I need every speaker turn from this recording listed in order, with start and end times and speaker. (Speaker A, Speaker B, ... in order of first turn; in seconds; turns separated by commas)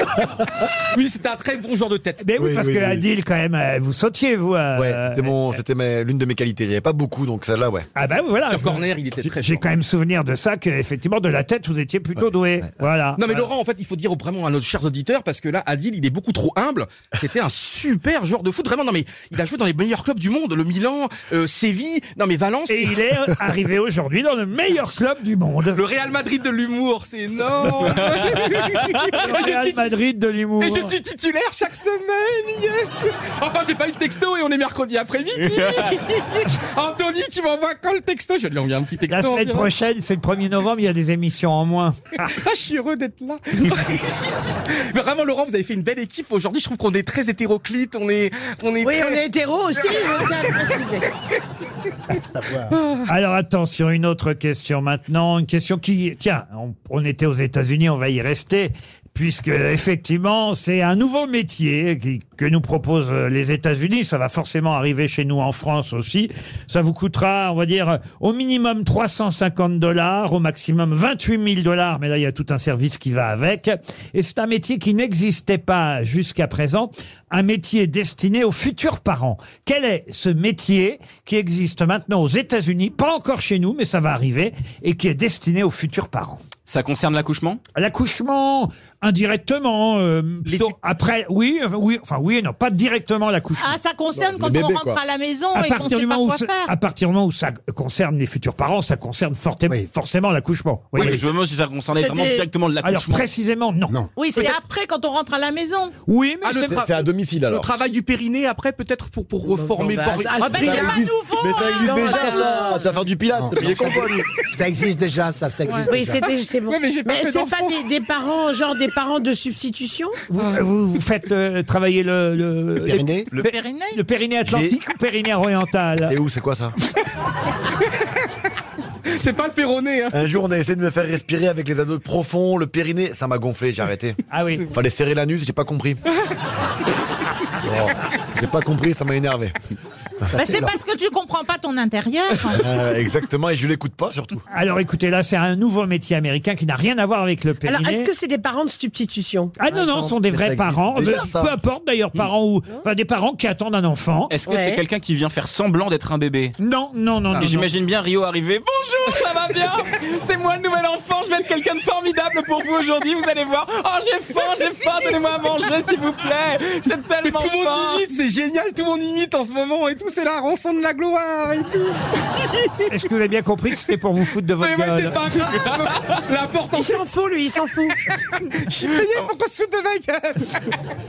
Speaker A: 0.9-2.2, Speaker B: 2.2-5.6, Speaker C: 2.4-3.0, Speaker C: 4.8-7.9, Speaker B: 8.0-8.8, Speaker A: 8.5-9.7, Speaker B: 9.4-13.5, Speaker A: 13.2-23.0, Speaker B: 22.7-25.8, Speaker A: 25.7-29.8, Speaker D: 27.9-28.8, Speaker B: 29.2-30.9, Speaker A: 30.6-39.7, Speaker D: 35.6-35.9, Speaker B: 39.1-42.3, Speaker A: 42.3-49.2, Speaker E: 48.8-51.0, Speaker A: 49.9-50.3, Speaker F: 52.3-52.8, Speaker B: 53.0-86.4, Speaker D: 86.7-87.6, Speaker B: 87.7-93.8, Speaker G: 93.6-96.7, Speaker C: 94.2-95.0, Speaker B: 95.5-101.2, Speaker D: 101.0-103.2, Speaker E: 101.9-102.5, Speaker B: 102.8-103.9, Speaker F: 103.9-104.4, Speaker G: 104.2-105.9, Speaker B: 106.1-106.8, Speaker A: 106.4-110.7, Speaker C: 106.7-107.9, Speaker E: 109.4-112.8, Speaker G: 110.4-112.5, Speaker C: 110.6-114.2, Speaker F: 113.3-116.2, Speaker E: 115.9-120.2, Speaker A: 116.7-117.8, Speaker B: 120.3-126.1, Speaker F: 122.8-123.3, Speaker G: 123.3-124.0, Speaker C: 124.4-124.7, Speaker C: 126.1-126.7, Speaker A: 129.1-130.2, Speaker C: 130.1-136.0, Speaker B: 134.3-134.7, Speaker C: 137.6-139.5, Speaker G: 140.3-142.6, Speaker F: 140.3-140.7, Speaker C: 142.5-144.4, Speaker B: 144.5-148.1, Speaker E: 147.7-149.5, Speaker B: 149.6-154.3, Speaker C: 149.7-151.6, Speaker D: 154.3-156.5, Speaker E: 154.4-154.8, Speaker B: 156.6-157.7, Speaker D: 157.3-168.1, Speaker A: 167.2-172.9, Speaker B: 172.9-175.7, Speaker A: 174.6-177.0, Speaker E: 176.7-178.0, Speaker A: 178.4-180.6